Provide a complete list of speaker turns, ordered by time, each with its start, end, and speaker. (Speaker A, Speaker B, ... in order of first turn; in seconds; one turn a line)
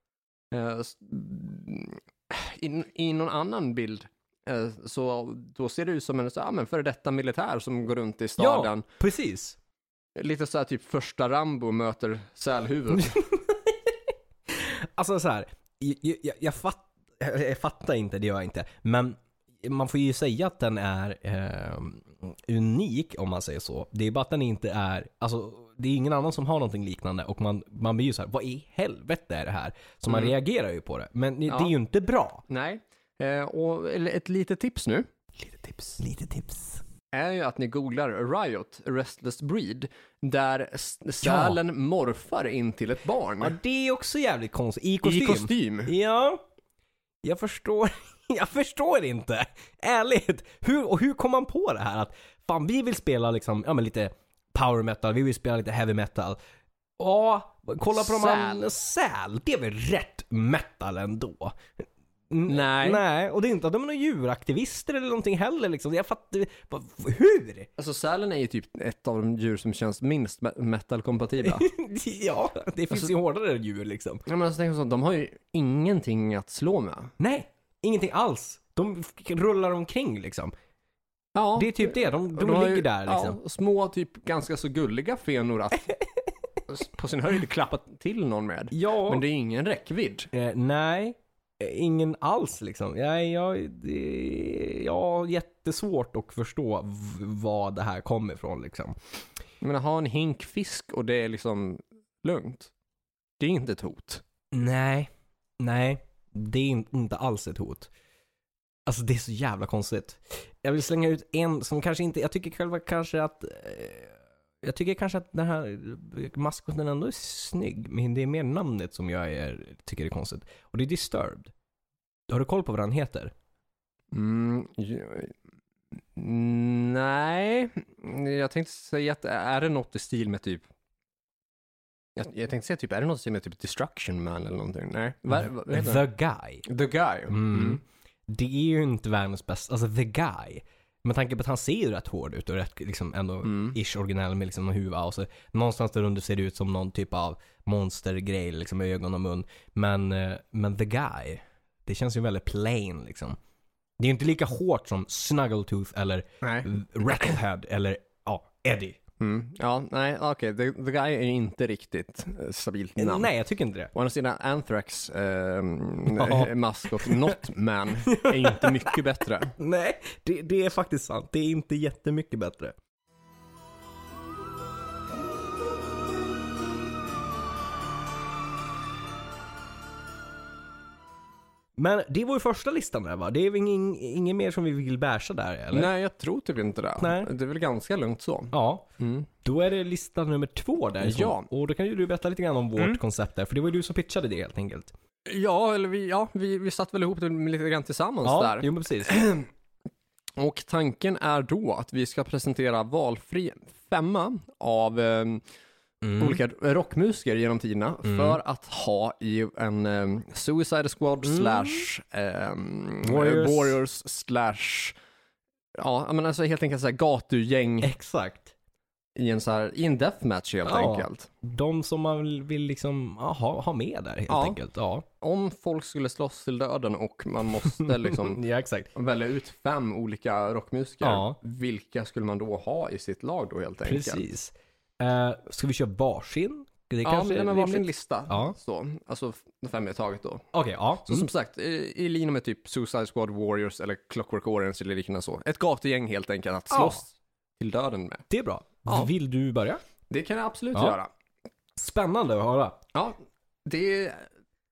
Speaker A: 0.5-8.8
Speaker B: 8.4-9.6
Speaker A: 10.2-13.2
Speaker B: 12.9-32.4
Speaker A: 31.5-31.7
Speaker A: 32.5-35.1
Speaker B: 35.4-36.8
Speaker A: 37.1-43.5
Speaker B: 41.2-41.6
Speaker B: 43.4-46.4
Speaker A: 45.0-45.9
Speaker B: 47.2-56.4
Speaker B: 57.0-61.6
Speaker A: 57.9-58.7
Speaker B: 62.3-67.7
Speaker A: 62.5-63.0
Speaker A: 67.8-71.7
Speaker B: 71.4-74.2
Speaker A: 74.3-77.1
Speaker B: 77.2-80.5
Speaker A: 81.3-85.9
Speaker B: 81.6-83.4
Speaker A: 86.7-90.3
Speaker B: 88.7-89.2
Speaker B: 90.3-99.0
Speaker A: 99.6-102.7
Speaker A: 103.4-104.2
Speaker B: 104.5-107.9
Speaker B: 108.9-121.5
Speaker B: 122.3-123.3
Speaker A: 124.1-125.3
Speaker A: 126.2-130.7
Speaker A: 132.2-136.1
Speaker B: 135.3-136.7
Speaker A: 136.7-137.8
Speaker B: 137.3-153.4
Speaker A: 143.4-143.8
Speaker B: 154.0-159.0
Speaker A: 156.4-157.4
Speaker A: 159.2-163.3
Speaker B: 163.0-163.9
Speaker A: 163.9-169.5
Speaker B: 166.1-167.4
Speaker B: 168.1-169.0
Speaker B: 169.6-172.8
Speaker B: 181.8-185.9
Speaker A: 185.7-189.3
Speaker B: 187.0-187.3
Speaker B: 188.5-188.9
Speaker B: 189.4-194.9
Speaker A: 191.0-191.5
Speaker A: 195.3-199.5
Speaker B: 198.2-199.2
Speaker A: 200.4-205.4
Speaker B: 206.0-206.4
Speaker A: 206.2-215.0
Speaker B: 208.1-208.4
Speaker B: 211.2-211.8
Speaker B: 213.0-213.8
Speaker A: 215.8-217.9
Speaker B: 217.8-218.5
Speaker A: 219.2-221.3
Speaker B: 220.7-225.1
Speaker A: 224.3-224.6
Speaker A: 225.2-228.4
Speaker B: 227.7-228.9
Speaker A: 228.9-234.2
Speaker B: 231.0-231.4
Speaker B: 233.8-238.5
Speaker A: 237.0-240.5
Speaker B: 240.5-241.3
Speaker A: 241.1-248.2
Speaker B: 246.7-247.0
Speaker B: 248.3-249.8
Speaker A: 248.9-249.1
Speaker A: 250.1-251.1
Speaker B: 251.8-252.8
Speaker A: 252.9-254.3